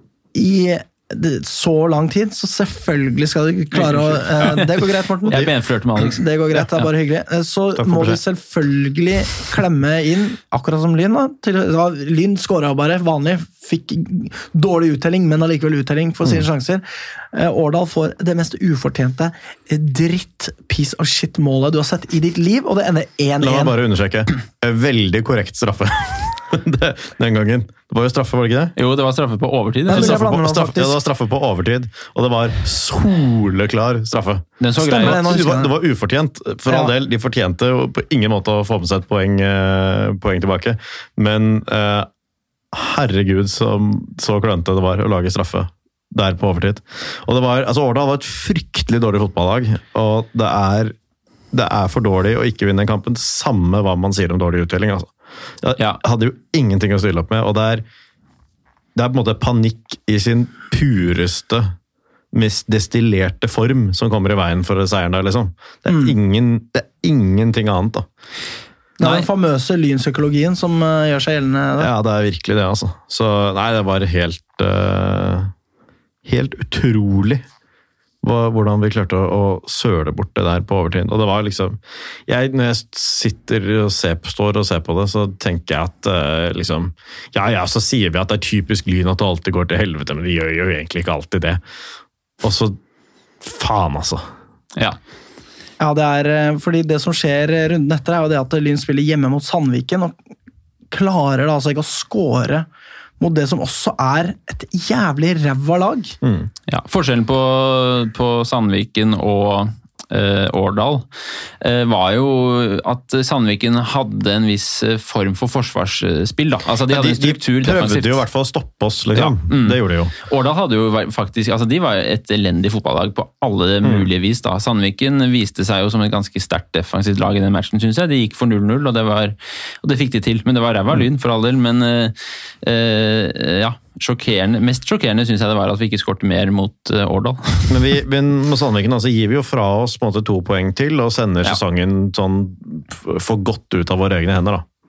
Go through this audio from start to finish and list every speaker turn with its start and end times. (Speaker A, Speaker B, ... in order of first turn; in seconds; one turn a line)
Speaker A: 0.3-5.5
Speaker B: 3.8-6.8
Speaker A: 6.1-23.8
Speaker C: 7.8-8.2
Speaker C: 23.4-28.8
Speaker B: 28.8-30.2
Speaker A: 29.9-31.0
Speaker C: 29.9-42.1
Speaker B: 34.6-35.3
Speaker A: 34.8-35.7
Speaker C: 42.7-51.0
Speaker C: 51.5-55.1
Speaker C: 55.6-57.8
Speaker C: 59.0-61.7
Speaker C: 62.3-68.1
Speaker A: 65.9-66.2
Speaker A: 69.0-71.9
Speaker B: 69.0-69.3
Speaker C: 71.8-75.5
Speaker C: 76.2-77.4
Speaker C: 78.2-91.6
Speaker C: 92.4-92.8
Speaker C: 93.4-94.2
Speaker A: 95.8-100.2
Speaker A: 100.9-102.7
Speaker A: 103.2-106.2
Speaker C: 106.2-106.5
Speaker B: 106.7-111.1
Speaker B: 111.6-118.2
Speaker C: 116.9-120.1
Speaker B: 119.1-137.8
Speaker C: 123.8-124.1
Speaker C: 137.7-144.7